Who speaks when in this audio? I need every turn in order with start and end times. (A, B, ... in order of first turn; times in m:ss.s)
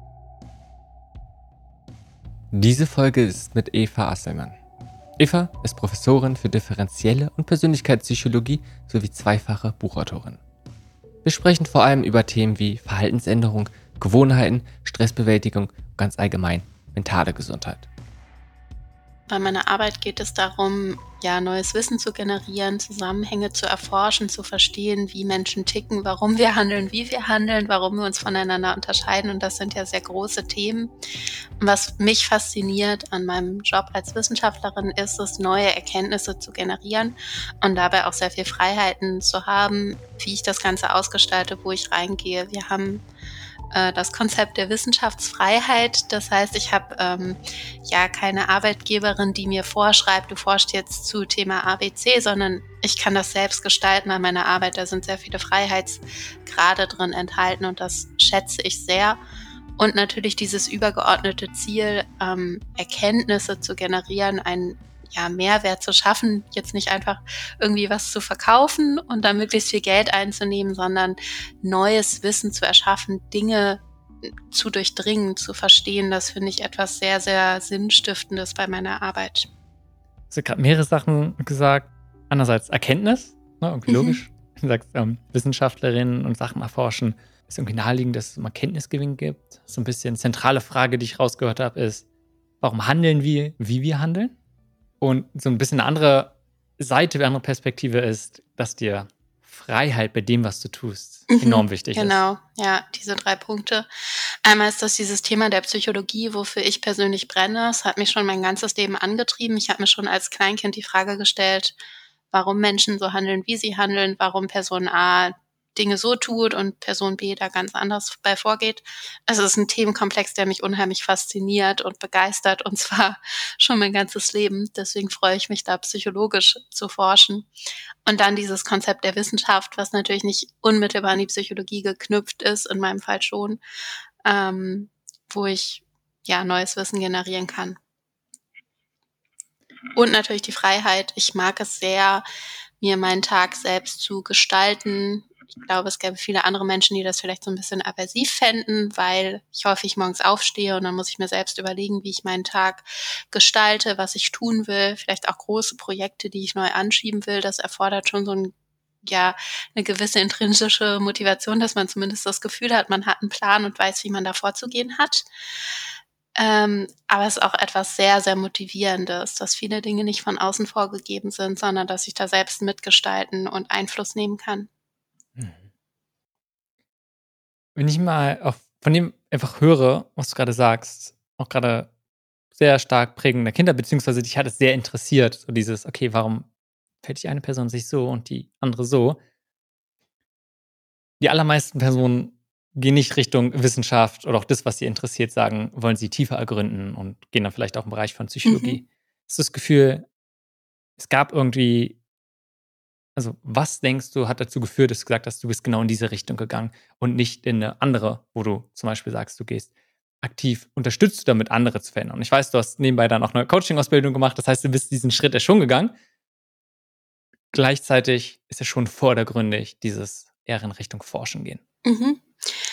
0:02.5-0:04.6 A
0:05.2-0:10.4 A
0:11.2-0:17.9 A
0:19.3-0:30.9 B
0:31.6-0:43.0 B
0:43.7-0:59.2 B
0:59.8-1:13.8 B
1:14.5-1:19.5 B
1:20.3-1:32.0 A
1:23.9-1:24.2 B
1:32.6-1:34.4 A
1:35.0-1:42.2 A
1:41.3-1:43.9 B
1:44.4-1:51.8 B
1:52.3-2:07.5 B
2:08.1-2:13.6 B
2:14.2-2:17.8 B
2:20.0-2:22.2 B
2:22.8-2:38.5 B
2:39.0-2:45.3 B
2:46.4-2:54.7 B
2:55.4-2:55.6 A
2:57.8-3:01.9 A
3:02.6-3:06.5 A
3:07.0-3:09.2 A
3:11.2-3:20.1 A
3:18.4-3:18.8 B
3:21.0-3:22.0 A
3:23.2-3:29.7 A
3:30.2-3:35.9 A
3:37.5-3:41.6 A
3:41.8-3:42.3 B